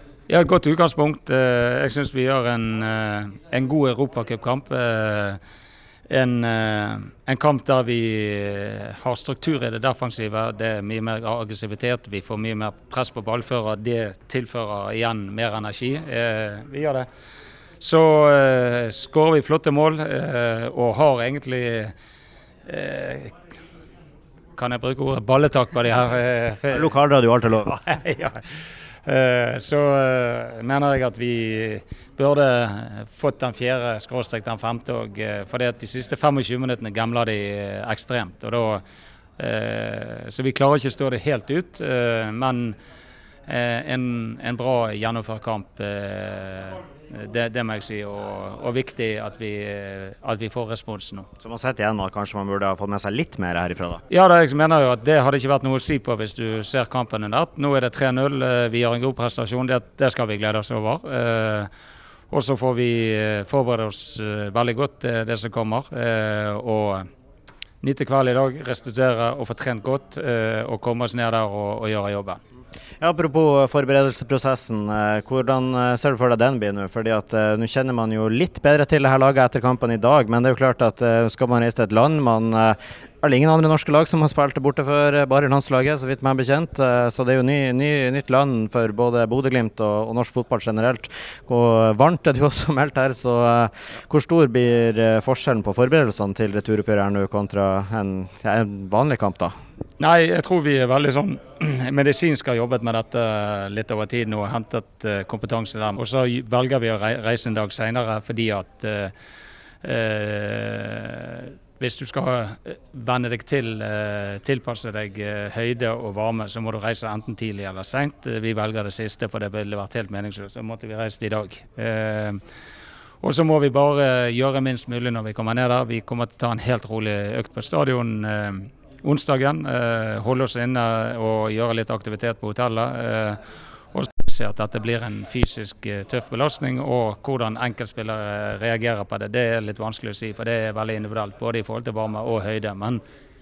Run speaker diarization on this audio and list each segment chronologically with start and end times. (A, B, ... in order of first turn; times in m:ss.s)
0:00.3-0:05.4 A
0:06.1-0:17.0 A
0:17.8-0:21.9 A
0:22.7-0:23.3 A
0:24.6-0:26.9 A
0:26.7-0:27.8 B
0:27.7-0:38.8 A
0:39.4-0:42.8 A
0:43.5-0:51.3 A
0:51.4-0:54.0 B
0:54.1-1:01.7 A
1:02.3-1:07.1 A
1:07.8-1:12.4 A
1:13.0-1:39.5 B
1:40.0-1:49.1 A
1:49.8-2:02.4 A
2:03.2-2:13.4 A
2:13.9-2:23.0 A